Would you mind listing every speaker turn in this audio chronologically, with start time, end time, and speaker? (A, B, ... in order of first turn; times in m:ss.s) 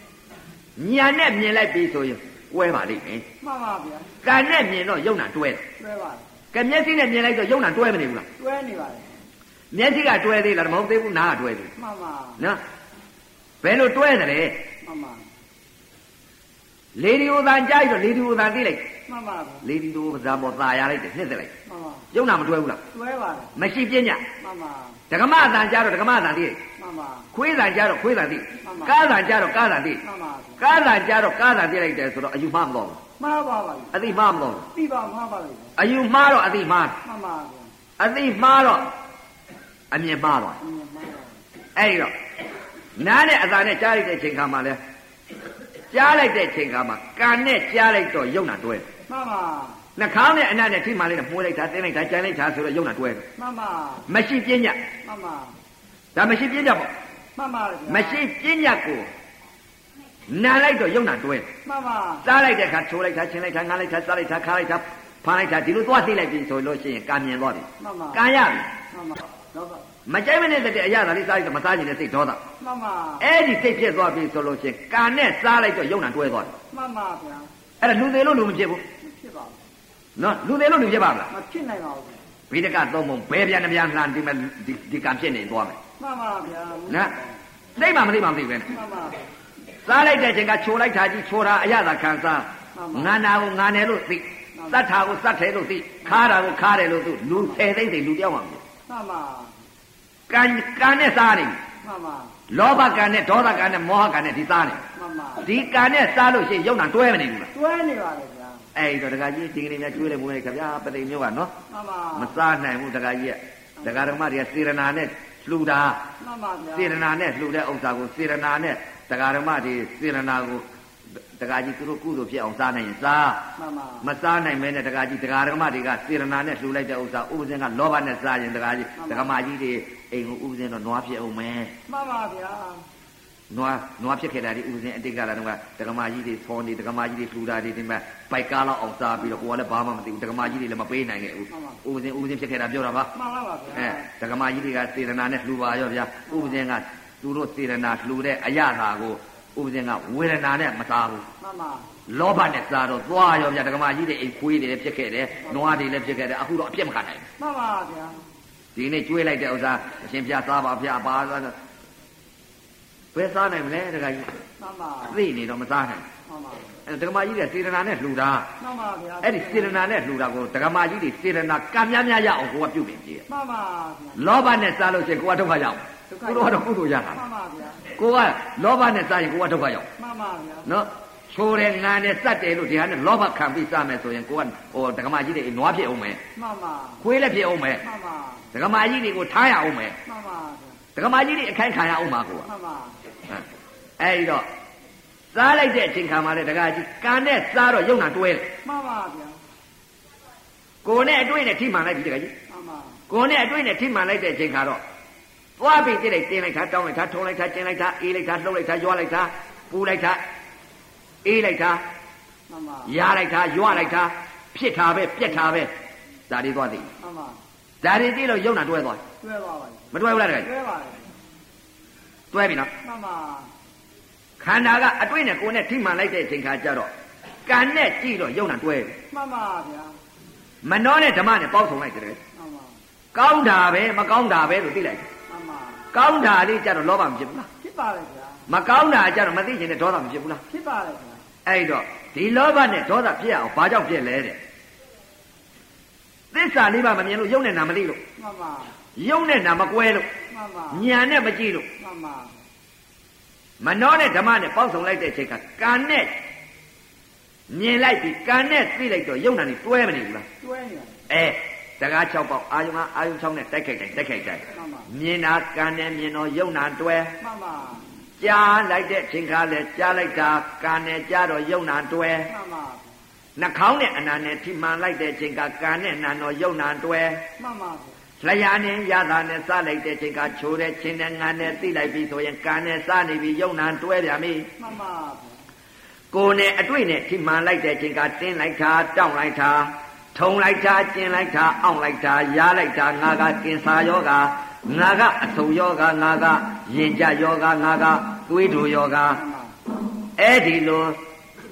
0:00.8-0:03.3 A
0:03.4-0:04.1 B
0:04.2-0:05.6 A
0:05.8-0:06.2 B
0:06.5-0:08.3 A
0:08.4-0:09.1 B
0:09.7-0:11.7 A
0:11.8-0:12.4 B
0:13.6-0:14.6 A
0:14.8-0:15.2 B
0:17.0-0:18.9 A
0:19.1-0:19.7 B
0:19.6-0:21.5 A
0:21.7-0:22.1 B
0:22.1-0:22.8 A
0:22.9-0:23.5 B
0:23.6-0:24.2 A
0:24.4-0:25.0 B
0:25.1-0:26.6 A
0:26.8-0:27.3 B
0:27.3-0:30.0 A
0:28.6-0:29.0 B
0:30.0-0:30.6 B
0:30.6-0:33.0 A
0:33.2-0:34.0 B
0:33.9-0:34.7 A
0:34.7-0:35.7 B
0:35.8-0:37.0 A
0:37.0-0:37.7 B
0:38.0-0:38.9 A
0:39.9-0:40.6 A
0:40.6-0:41.4 B
0:41.8-0:42.1 A
0:43.0-0:44.8 A
0:45.9-0:48.9 A
0:49.1-0:49.8 B
0:50.0-0:53.3 A
0:53.4-0:54.1 B
0:54.1-0:54.8 A
0:55.0-0:55.6 B
0:56.2-0:56.9 A
0:57.4-0:58.2 B
0:57.9-0:59.1 A
1:00.3-1:01.5 A
1:01.6-1:02.3 B
1:02.2-1:08.7 A
1:07.8-1:08.2 B
1:08.9-1:09.8 B
1:10.1-1:12.4 A
1:12.6-1:13.3 B
1:13.2-1:16.6 A
1:16.7-1:17.5 B
1:17.8-1:18.8 A
1:19.0-1:19.6 B
1:20.2-1:21.3 A
1:21.3-1:22.2 B
1:22.5-1:25.8 A
1:26.0-1:27.4 B
1:27.8-1:28.7 A
1:28.7-1:29.2 B
1:29.8-1:38.6 A
1:32.8-1:33.1 B
1:34.6-1:34.8 B
1:38.9-1:39.6 B
1:40.3-1:41.6 A
1:41.8-1:42.4 B
1:42.5-1:44.8 A
1:44.9-1:45.5 B
1:45.4-1:47.5 A
1:47.5-1:48.6 B
1:48.8-1:51.5 A
1:51.7-1:52.4 B
1:52.2-1:56.0 A
1:53.8-1:54.1 B
1:56.2-1:57.0 B
1:56.7-2:00.6 A
2:01.4-2:03.5 A
2:03.6-2:04.1 B
2:04.0-2:11.7 A
2:09.0-2:09.3 B
2:11.9-2:12.8 B
2:13.5-2:23.1 A
2:21.5-2:21.8 B
2:23.1-2:24.0 B
2:23.7-2:31.3 A
2:26.3-2:26.6 B
2:31.4-2:31.9 B
2:32.1-2:37.3 A
2:37.4-2:38.2 B
2:38.8-2:41.6 A
2:43.2-2:44.3 A
2:44.6-2:45.2 B
2:45.1-2:46.1 A
2:46.3-2:46.7 B
2:46.9-2:48.5 A
2:48.6-2:49.8 B
2:49.2-2:53.2 A
2:53.3-2:54.2 B
2:54.2-2:57.2 A
2:56.1-2:57.8 B
2:57.9-2:59.9 A
3:00.0-3:00.7 B
3:00.6-3:06.2 A
3:06.4-3:07.0 B
3:07.0-3:07.8 A
3:07.8-3:08.5 B
3:08.5-3:10.0 A
3:10.1-3:10.8 B
3:11.0-3:12.5 A
3:12.5-3:13.0 B
3:14.0-3:14.5 A
3:15.3-3:18.5 A
3:18.6-3:19.4 B
3:20.8-3:22.3 A
3:22.5-3:23.0 B
3:23.1-3:24.8 A
3:25.6-3:30.2 A
3:31.2-3:31.8 A
3:32.5-3:32.9 B
3:32.9-3:35.7 A
3:36.3-3:36.9 A
3:37.0-3:37.4 B
3:37.8-3:39.0 A
3:39.2-3:41.1 B
3:39.9-3:40.5 A
3:42.3-3:42.7 A
3:42.8-3:43.5 B
3:44.4-3:46.9 A
3:47.5-3:49.0 A
3:49.1-3:50.0 B
3:50.6-3:52.2 A
3:52.3-3:52.8 B
3:53.1-3:55.1 A
3:55.3-3:55.8 B
3:55.9-3:57.5 A
3:57.6-3:58.4 B
3:58.5-4:00.4 A
4:00.5-4:01.2 B
4:01.5-4:04.4 A
4:06.3-4:08.0 A
4:08.2-4:08.7 B
4:09.0-4:10.1 A
4:10.3-4:10.9 B
4:10.7-4:11.7 A
4:11.8-4:12.4 B
4:13.6-4:16.2 A
4:17.5-4:20.3 A
4:20.4-4:21.0 B
4:21.1-4:27.2 A
4:24.5-4:24.9 B
4:27.2-4:27.8 B
4:28.2-4:32.3 A
4:32.3-4:32.9 B
4:33.4-4:37.2 A
4:37.4-4:38.0 B
4:38.2-4:44.5 A
4:44.6-4:45.4 B
4:46.1-4:59.2 A
4:59.2-4:59.6 B
5:00.2-5:01.0 A